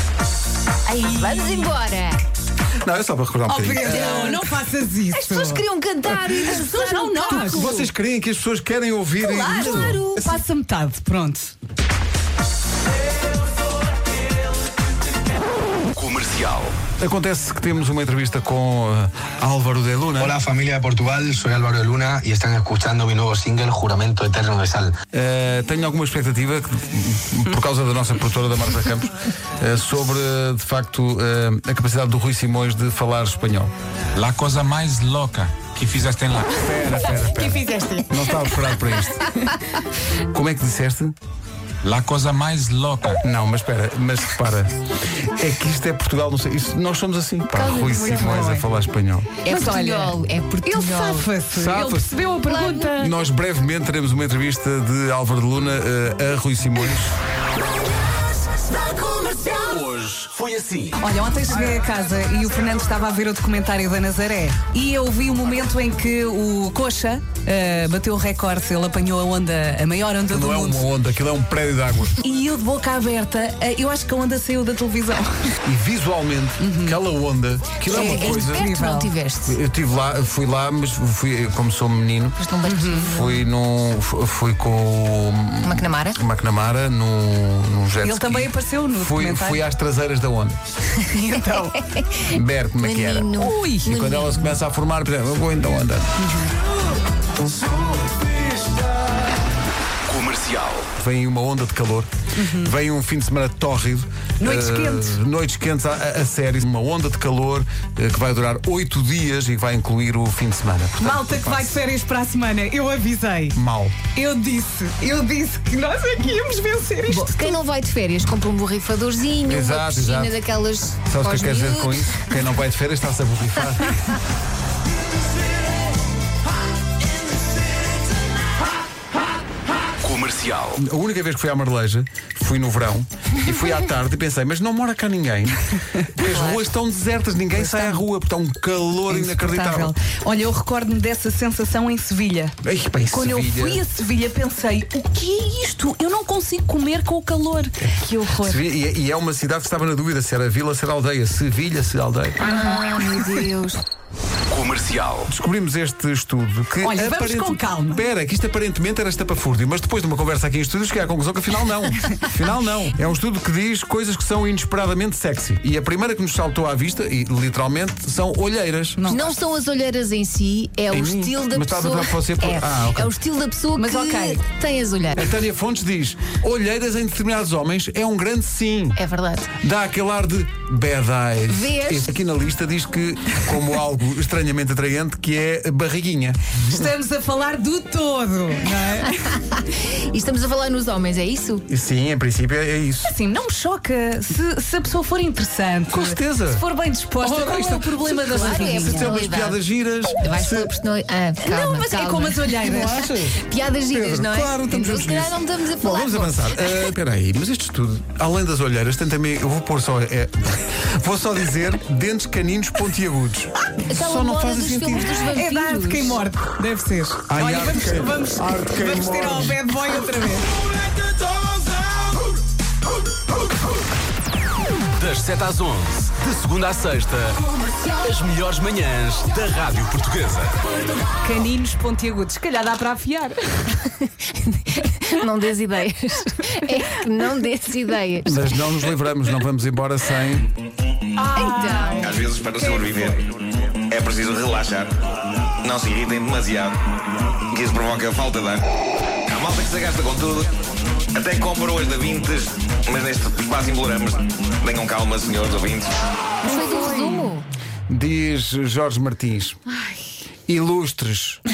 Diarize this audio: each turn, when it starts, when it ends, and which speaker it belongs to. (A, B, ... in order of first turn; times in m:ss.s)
0:00.9-0:01.7 A
0:01.0-0:02.2 B
0:02.8-0:04.4 C
0:03.5-0:05.6 A
0:03.8-0:04.4 B
0:05.2-0:07.7 B
0:06.4-0:07.9 A
0:07.3-0:10.1 C
0:09.3-0:11.5 A
0:09.3-0:10.3 B
0:15.9-0:16.8 D
0:17.0-0:20.4 C
0:20.2-0:24.9 E
0:25.1-0:33.7 C
0:34.2-0:35.2 D
0:34.2-0:36.6 F
0:36.5-0:39.3 C
0:37.1-0:38.1 A
0:40.3-0:41.2 C
0:41.8-0:43.0 F
0:41.9-0:43.2 D
0:43.2-0:49.4 C
0:47.5-0:48.7 A
0:49.4-0:51.3 B
0:49.5-0:53.2 A
0:51.5-0:52.1 C
0:52.5-0:53.0 B
0:53.0-0:57.2 C
0:59.2-1:01.0 D
1:01.0-1:10.9 A
1:10.3-1:12.2 C
1:12.2-1:15.6 A
1:15.6-1:18.7 C
1:16.6-1:17.0 A
1:17.9-1:19.1 A
1:17.9-1:19.6 B
1:19.4-1:22.5 C
1:22.4-1:23.4 B
1:22.6-1:23.1 A
1:23.1-1:30.6 C
1:25.6-1:26.2 B
1:28.0-1:29.6 A
1:31.1-1:31.8 A
1:31.5-1:34.6 B
1:32.3-1:33.3 C
1:33.4-1:34.0 A
1:33.8-1:36.1 C
1:36.2-1:36.5 A
1:40.1-1:40.9 D
1:41.0-1:51.8 C
1:42.4-1:42.7 A
1:44.4-1:45.2 A
1:51.0-1:53.6 A
1:53.5-1:54.0 C
1:54.1-1:57.6 A
1:57.1-2:02.2 B
1:59.5-2:00.4 C
2:01.1-2:04.1 C
2:10.0-2:10.8 D
2:10.8-2:19.9 C
2:17.5-2:18.0 A
2:19.1-2:22.6 A
2:22.6-2:23.8 C
2:23.1-2:28.6 A
2:28.4-2:32.5 C
2:32.4-2:33.8 B
2:34.5-2:35.3 D
2:35.3-2:49.3 C
2:36.8-2:38.0 A
2:49.1-2:55.3 B
2:50.9-2:53.1 C
2:53.8-2:54.4 A
2:55.2-2:59.0 C
2:59.0-2:59.5 B
2:59.6-3:06.6 C
3:01.5-3:02.1 B
3:06.6-3:09.2 A
3:09.3-3:11.7 B
3:11.7-3:13.1 C
3:13.0-3:19.2 A
3:15.9-3:16.6 C
3:17.2-3:20.7 C
3:18.2-3:19.6 B
3:20.2-3:22.5 B
3:21.4-3:23.1 A
3:22.6-3:35.2 C
3:23.3-3:26.9 B
3:33.9-3:36.2 B
3:35.2-3:40.5 A
3:37.3-3:39.6 C
3:45.0-3:47.4 D
3:48.0-3:50.6 D
3:51.1-3:53.8 A
3:54.5-3:58.6 B
3:58.2-4:00.5 C
4:01.2-4:03.3 A
4:01.3-4:02.2 B
4:02.0-4:05.0 G
4:05.6-4:06.8 G
4:07.5-4:08.6 G
4:09.3-4:10.6 G
4:11.1-4:16.0 G
4:16.4-4:17.5 B
4:16.5-4:17.3 A
4:17.9-4:19.6 C
4:20.5-4:21.4 C